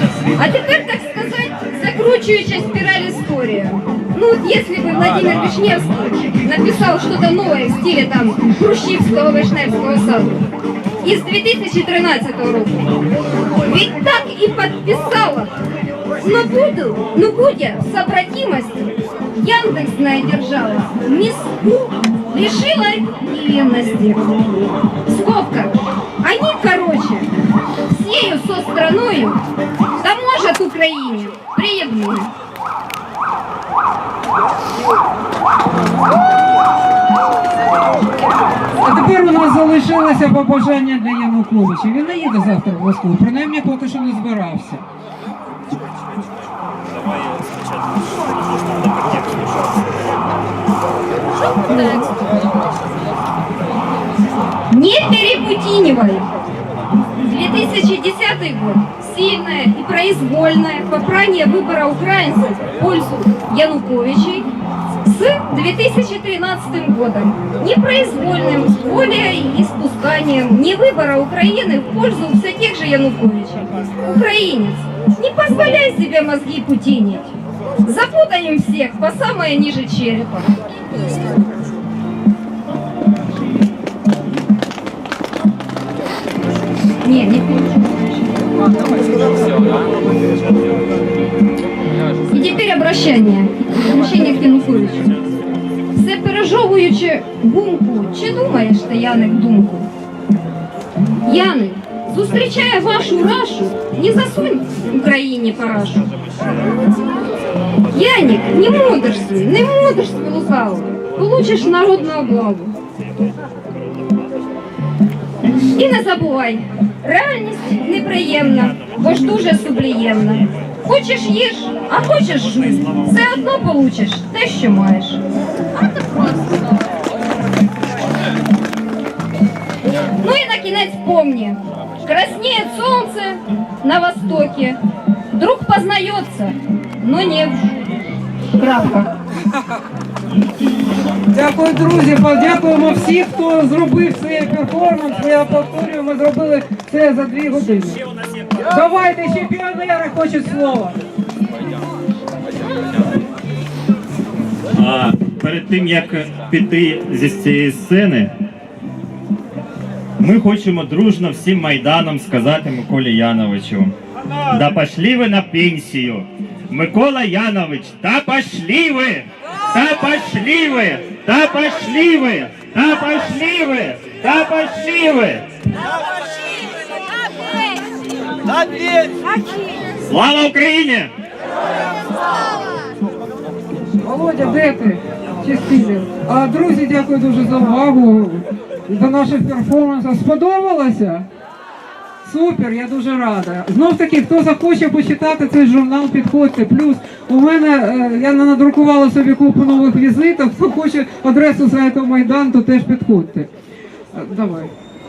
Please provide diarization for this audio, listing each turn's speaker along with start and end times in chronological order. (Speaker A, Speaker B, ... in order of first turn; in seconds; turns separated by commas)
Speaker A: 0.4-10.4, Speaker A: 11.0-12.9, Speaker A: 13.6-15.6, Speaker A: 16.2-24.3, Speaker A: 25.1-27.3, Speaker A: 27.9-29.4, Speaker A: 30.0-32.3, Speaker B: 38.8-44.8, Speaker C: 49.0-49.3, Speaker B: 51.8-52.2, Speaker A: 54.7-56.3, Speaker A: 57.2-64.5, Speaker A: 65.0-80.5, Speaker A: 87.0-88.3, Speaker A: 92.3-95.1, Speaker A: 96.0-99.9, Speaker A: 101.2-106.1, Speaker A: 107.9-112.7, Speaker A: 115.7-125.2, Speaker A: 130.1-134.8, Speaker A: 135.3-137.8, Speaker A: 138.6-139.1, Speaker B: 141.3-148.0, Speaker B: 148.6-150.9, Speaker C: 154.7-158.3, Speaker C: 160.2-163.9, Speaker C: 164.4-175.4, Speaker A: 177.3-177.6, Speaker C: 180.1-181.1, Speaker B: 183.9-191.2, Speaker B: 192.2-203.5, Speaker B: 204.1-204.7